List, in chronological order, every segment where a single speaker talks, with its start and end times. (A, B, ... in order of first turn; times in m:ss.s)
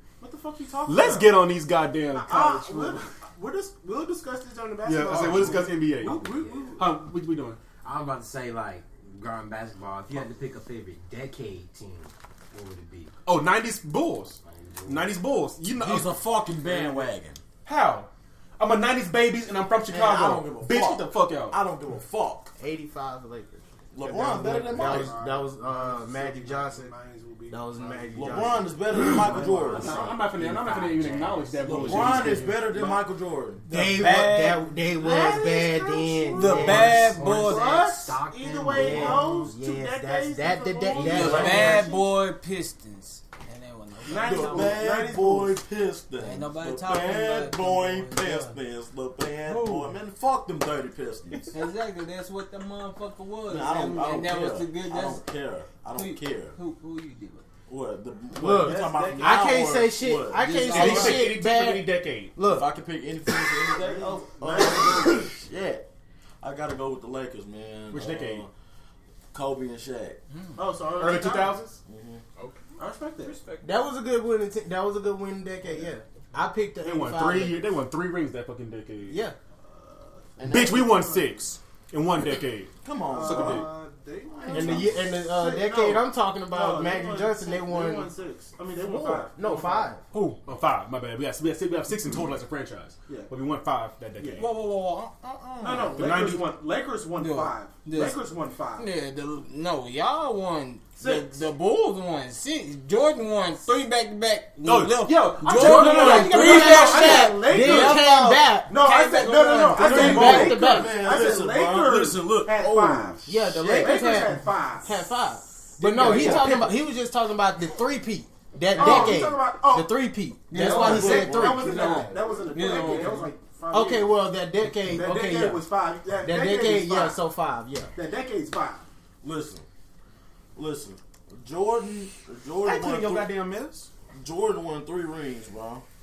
0:00.2-0:01.4 A
0:00.8-0:03.0 B
0:02.1-0:06.8 A
0:04.8-0:06.2 B
0:06.0-0:06.8 C
0:06.8-0:07.6 B
0:07.8-0:13.1 C
0:13.2-0:16.1 B
0:14.4-0:15.1 C
0:15.8-0:17.4 D
0:17.6-0:21.6 B
0:19.9-0:22.5 D
0:22.6-0:26.9 E
0:23.9-0:25.2 D
0:24.0-0:30.2 A
0:27.5-0:28.8 E
0:28.1-0:30.0 D
0:29.3-0:32.2 C
0:29.7-0:32.9 B
0:31.6-0:33.6 D
0:33.6-0:34.2 B
0:33.7-0:37.1 E
0:33.7-0:34.6 F
0:35.0-0:42.0 A
0:36.3-0:39.4 C
0:36.3-0:37.8 F
0:38.7-0:41.8 E
0:38.8-0:39.2 F
0:40.9-0:41.8 D
0:41.0-0:44.9 F
0:44.0-0:45.6 A
0:44.2-0:51.5 D
0:46.2-0:48.6 F
0:49.5-0:49.9 A
0:51.5-0:55.2 F
0:53.5-0:56.6 D
0:55.9-0:57.4 F
0:57.7-1:00.7 D
0:58.4-1:02.7 E
0:58.4-0:59.6 A
1:00.4-1:01.3 F
1:00.7-1:02.3 B
1:02.4-1:05.8 D
1:03.5-1:03.7 E
1:03.7-1:05.3 A
1:06.4-1:08.5 D
1:07.9-1:08.4 B
1:09.3-1:10.2 D
1:10.6-1:11.6 A
1:11.0-1:11.8 B
1:11.8-1:12.2 D
1:12.8-1:13.4 A
1:13.2-1:13.7 C
1:13.6-1:17.7 E
1:16.8-1:19.2 B
1:19.1-1:19.3 E
1:19.7-1:21.0 A
1:20.4-1:21.2 D
1:20.5-1:22.7 B
1:22.8-1:23.6 D
1:23.1-1:29.9 A
1:23.2-1:23.6 B
1:24.3-1:25.0 D
1:24.5-1:28.1 E
1:28.7-1:30.0 E
1:30.1-1:34.5 B
1:33.1-1:33.3 A
1:34.2-1:34.5 A
1:34.4-1:36.2 F
1:35.6-1:38.9 A
1:36.0-1:36.4 B
1:37.1-1:38.2 F
1:38.8-1:50.5 F
1:41.0-1:41.4 A
1:44.6-1:47.2 B
1:45.4-1:48.2 A
1:45.5-1:48.8 E
1:45.6-1:46.4 D
1:48.7-1:55.1 A
1:49.7-1:51.1 E
1:49.8-1:54.2 D
1:53.3-2:05.7 E
1:55.8-1:56.7 A
1:55.9-1:56.8 B
1:58.7-2:04.2 A
1:58.8-1:59.2 F
2:00.5-2:01.2 F
2:00.7-2:02.1 D
2:02.5-2:03.2 F
2:04.9-2:07.2 A
2:06.2-2:07.9 E
2:08.0-2:08.8 A
2:09.2-2:09.6 D
2:10.5-2:13.3 D
2:12.6-2:13.9 B
2:14.1-2:15.8 D